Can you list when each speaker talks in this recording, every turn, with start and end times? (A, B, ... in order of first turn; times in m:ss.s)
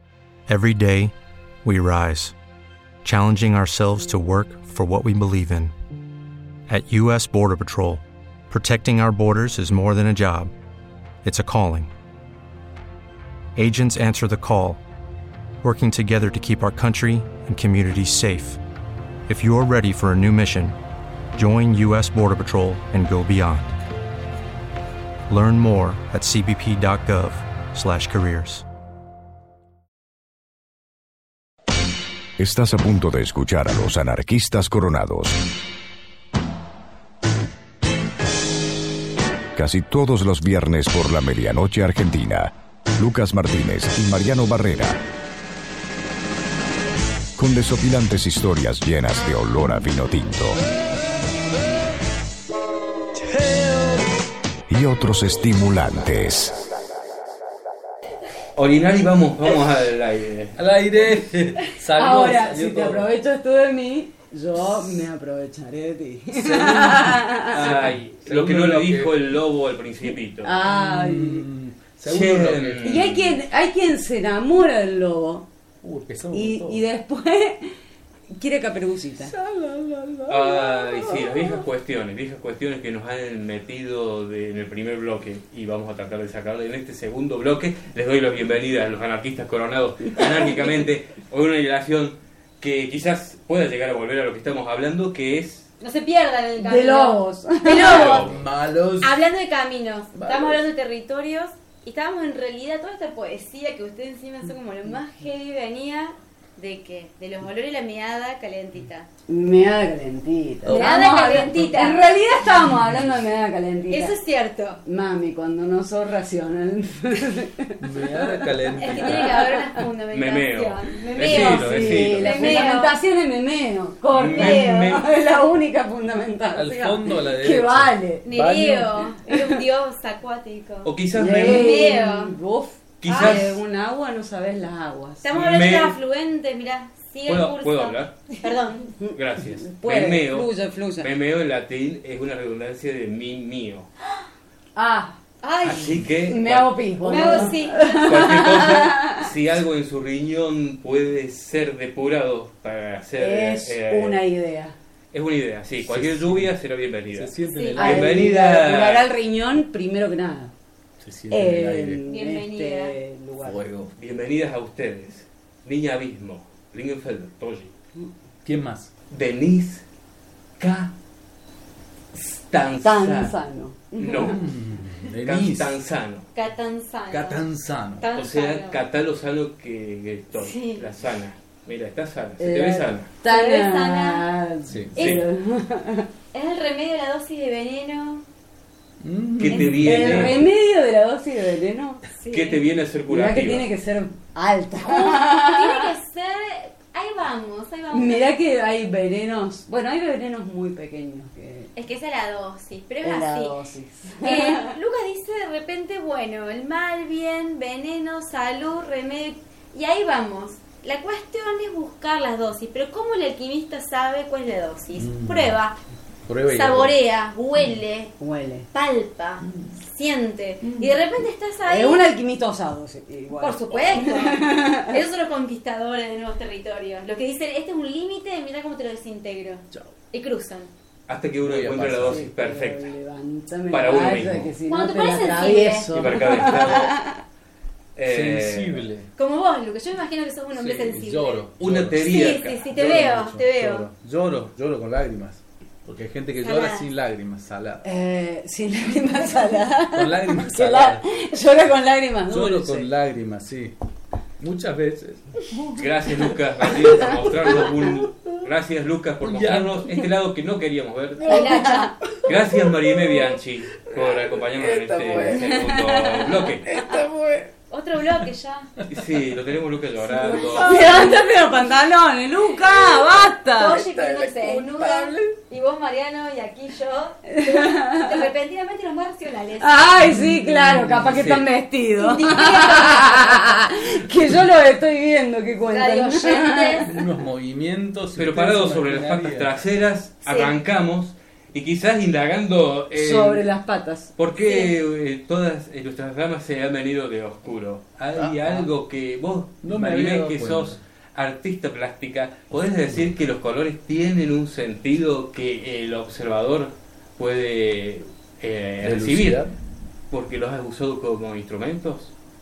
0:00.5-0:01.1 A
0:01.6-0:02.3 A
0:03.0-0:05.7 A
0:06.7-0:10.5 A
0:11.2-0:11.9 A
0:13.6-0:14.8 A
0:15.6-0:18.6 A
0:19.3-0:20.8 A
0:21.3-0:23.7 A
0:25.3-0:28.6 A
0:32.4-0:35.4 B
0:39.5-0:45.0 B
0:47.4-0:50.6 B
0:53.5-0:53.9 C
0:54.7-0:56.6 B
0:58.6-1:00.6 D
1:00.6-1:03.1 C
1:02.0-1:07.8 E
1:06.3-1:09.1 C
1:07.5-1:10.5 D
1:10.4-1:11.4 E
1:10.6-1:13.3 C
1:12.0-1:13.3 D
1:12.8-1:15.5 E
1:15.8-1:16.8 C
1:16.3-1:17.7 E
1:18.3-1:19.3 E
1:19.2-1:21.6 C
1:20.3-1:35.7 D
1:35.8-1:38.2 F
1:36.6-1:38.1 E
1:37.8-1:38.4 D
1:37.8-1:39.2 C
1:39.0-1:49.1 F
1:40.1-1:40.6 C
1:49.3-1:54.2 E
1:50.6-1:52.1 F
1:50.7-1:51.7 C
1:53.9-1:54.8 F
1:54.8-1:58.4 E
1:57.8-1:59.5 C
1:58.8-2:03.0 F
1:59.0-1:59.5 E
2:00.1-2:02.7 D
2:01.1-2:08.3 E
2:04.1-2:05.0 D
2:04.3-2:05.0 F
2:06.5-2:09.1 C
2:08.2-2:12.4 F
2:10.8-2:11.9 D
2:11.1-2:15.2 E
2:13.0-2:13.6 D
2:13.0-2:13.5 F
2:15.2-2:18.9 F
2:15.3-2:16.0 D
2:17.2-2:18.2 D
2:19.0-2:21.1 E
2:19.1-2:23.9 D
2:24.7-2:25.2 E
2:25.4-2:26.0 F
2:25.6-2:34.2 D
2:26.2-2:29.2 E
2:27.0-2:28.2 F
2:33.2-2:34.8 E
2:35.1-2:39.0 D
2:35.8-2:36.5 C
2:37.1-2:38.4 C
2:37.5-2:37.8 F
2:37.8-2:40.5 E
2:41.0-2:42.0 C
2:41.3-2:43.6 E
2:42.1-2:42.9 F
2:43.4-2:43.9 C
2:44.0-2:47.7 D
2:48.4-2:48.9 C
2:49.1-2:49.8 D
2:50.6-2:50.9 D
2:52.1-2:53.3 D
2:52.8-2:54.4 E
2:54.0-2:54.4 D
2:54.2-2:55.8 C
2:55.2-2:56.2 D
2:56.3-2:57.4 F
2:57.1-2:58.1 C
2:58.0-2:58.8 F
2:58.1-3:03.1 D
3:00.3-3:00.8 F
3:02.4-3:06.1 E
3:03.2-3:04.2 F
3:04.6-3:05.0 C
3:06.3-3:08.2 F
3:09.0-3:10.4 C
3:09.4-3:10.4 D
3:09.5-3:09.8 F
3:09.6-3:12.0 E
3:12.1-3:12.6 F
3:12.3-3:13.7 D
3:13.1-3:15.9 E
3:14.8-3:18.3 F
3:17.9-3:21.7 E
3:21.7-3:23.5 F
3:23.0-3:24.7 E
3:24.2-3:35.7 F
3:35.0-3:35.6 C
3:36.2-3:37.0 C
3:36.4-3:38.1 F
3:38.2-3:38.7 E
3:38.7-3:42.0 F
3:41.6-3:45.0 E
3:43.4-3:50.7 F
3:51.1-3:52.8 D
3:51.4-3:52.3 C
3:52.0-3:57.2 E
3:53.7-3:54.5 D
3:54.7-3:56.5 F
3:55.9-3:56.9 D
3:58.0-3:58.8 D
3:58.0-3:59.1 C
3:59.2-4:03.9 F
4:00.5-4:00.9 D
4:00.8-4:07.8 C
4:01.6-4:03.2 D
4:06.4-4:06.8 F
4:07.8-4:12.9 E
4:09.9-4:11.1 C
4:12.3-4:13.7 C
4:14.4-4:15.2 C
4:15.7-4:21.6 D
4:16.6-4:18.3 C
4:19.2-4:20.0 C
4:21.3-4:21.9 F
4:21.6-4:21.9 E
4:22.2-4:23.3 C
4:22.2-4:26.7 D
4:23.9-4:27.5 C
4:27.7-4:28.7 F
4:28.9-4:30.7 D
4:30.2-4:31.1 F
4:30.2-4:35.1 E
4:33.5-4:39.9 F
4:33.8-4:35.2 C
4:37.3-4:38.2 E
4:39.6-4:46.8 E
4:40.1-4:41.4 C
4:42.0-4:43.7 F
4:45.7-4:46.9 F
4:46.8-4:49.6 C
4:48.2-4:53.4 D
4:50.2-4:50.5 F
4:52.9-4:54.1 E
4:54.2-5:09.4 D
4:58.1-4:58.7 C
4:59.6-5:00.8 C
5:02.9-5:03.1 C
5:08.8-5:09.5 C
5:10.1-5:12.1 D